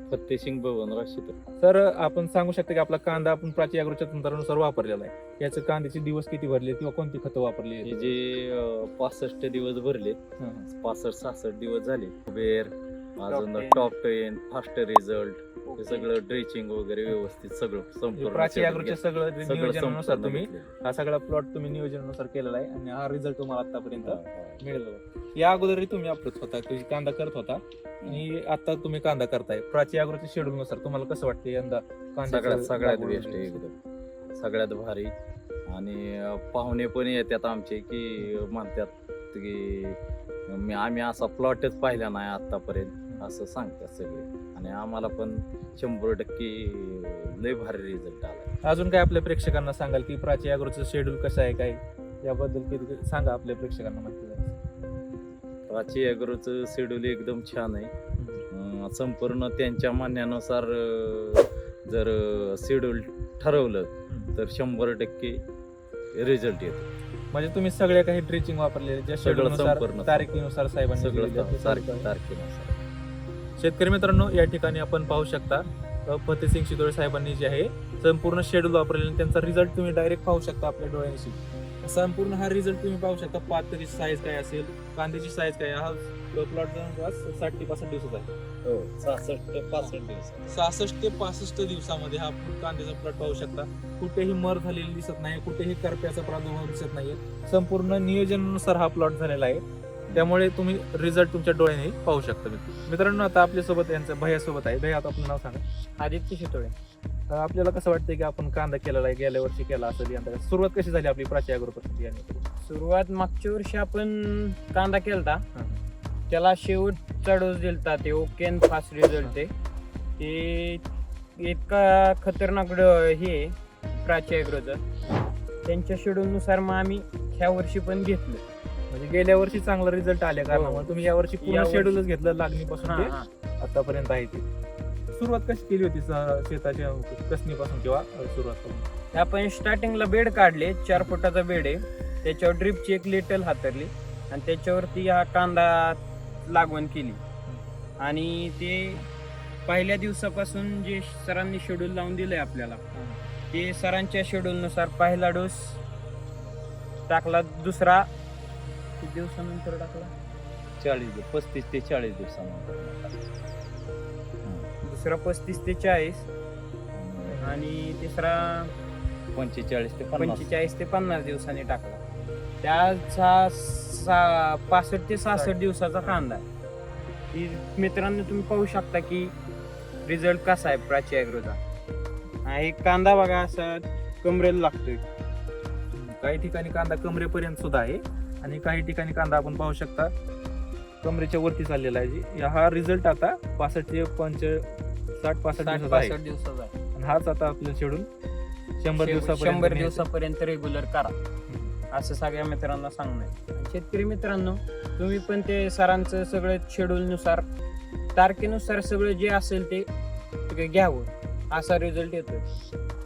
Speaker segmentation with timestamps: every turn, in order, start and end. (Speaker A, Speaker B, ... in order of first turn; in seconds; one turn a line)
Speaker A: 0.1-1.4
Speaker B: 1.6-8.2
Speaker A: 7.8-10.2
Speaker B: 10.4-10.7
Speaker A: 10.7-20.8
Speaker C: 13.3-13.9
Speaker C: 15.7-16.1
Speaker B: 18.2-33.6
Speaker A: 24.0-24.6
Speaker A: 32.3-33.8
Speaker A: 34.4-35.1
Speaker A: 35.7-48.5
Speaker B: 48.6-54.6
Speaker A: 55.7-57.9
Speaker B: 58.2-58.4
Speaker A: 58.5-65.4
Speaker B: 64.1-64.4
Speaker A: 66.2-66.8
Speaker B: 67.3-72.1
Speaker A: 69.2-70.4
Speaker A: 71.0-72.7
Speaker B: 73.6-88.3
Speaker A: 88.7-90.6
Speaker B: 90.5-99.6
Speaker B: 100.1-105.6
Speaker C: 106.0-106.7
Speaker B: 107.3-112.5
Speaker C: 112.6-115.4
Speaker B: 115.5-115.8
Speaker C: 116.3-119.5
Speaker C: 120.2-120.8
Speaker C: 121.4-124.8
Speaker C: 125.7-128.4
Speaker B: 128.9-134.5
Speaker C: 130.5-132.0
Speaker C: 132.8-133.3
Speaker B: 135.1-138.9
Speaker C: 139.1-147.2
Speaker C: 148.0-149.0
Speaker C: 149.7-152.8
Speaker B: 152.9-153.3
Speaker C: 153.5-155.8
Speaker C: 157.1-158.1
Speaker C: 159.0-160.1
Speaker A: 160.8-163.2
Speaker A: 164.4-164.7
Speaker C: 164.8-166.3
Speaker A: 166.9-167.5
Speaker B: 167.3-167.6
Speaker C: 167.4-168.7
Speaker A: 169.3-170.5
Speaker C: 170.2-172.0
Speaker C: 172.6-176.5
Speaker B: 175.3-176.2
Speaker C: 177.3-179.3
Speaker C: 180.1-181.6
Speaker C: 182.4-185.0
Speaker B: 185.9-190.1
Speaker B: 191.0-196.2
Speaker C: 195.6-196.8
Speaker B: 197.0-198.1
Speaker B: 198.8-200.1
Speaker C: 199.0-201.2
Speaker B: 201.5-201.7
Speaker C: 201.9-207.4
Speaker C: 208.2-209.9
Speaker C: 210.5-212.4